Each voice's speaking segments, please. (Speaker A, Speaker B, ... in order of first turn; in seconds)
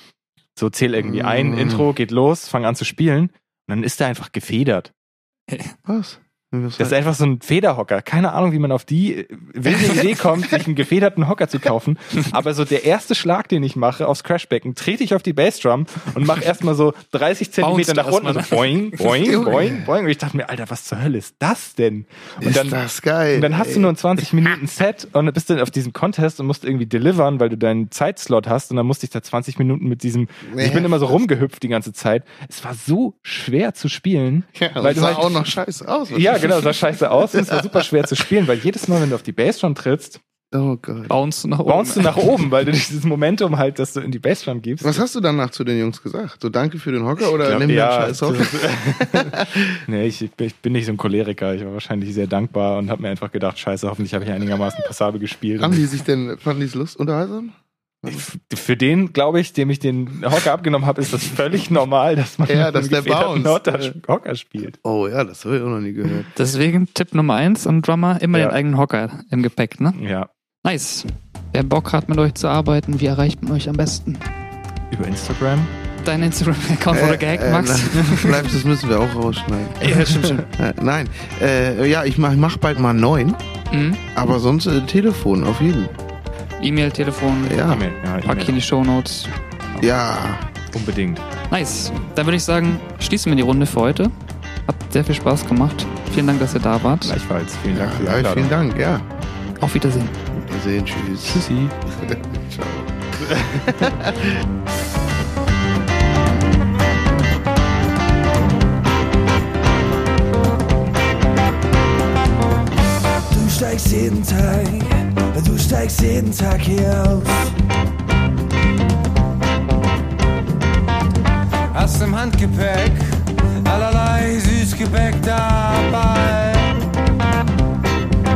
Speaker A: 0.6-4.9, 6.8-22.8, 23.3-35.4, 36.1-40.2, 41.7-45.0, 47.4-55.9, 58.1-64.8, 70.0-70.3, 74.9-75.7, 79.9-80.3, 87.6-88.6, 90.7-91.2, 97.0-98.5, 101.2-101.7
Speaker B: 1.0-1.9, 5.9-7.0, 19.4-19.7, 22.4-23.9, 30.5-31.2, 34.6-37.9, 40.5-41.1, 44.8-49.8, 55.6-58.2, 62.5-63.9, 64.8-66.3, 76.9-83.4, 84.1-86.0, 87.5-87.9, 89.8-90.5, 97.7-99.1, 100.4-104.5
Speaker C: 17.6-19.8, 41.1-42.2, 66.3-70.0, 70.6-74.3, 76.0-78.5, 79.8-80.5, 83.7-84.0, 86.6-87.6, 88.2-89.3, 91.5-94.1, 94.7-97.2, 99.6-100.2
Speaker D: 113.1-117.5, 121.7-127.0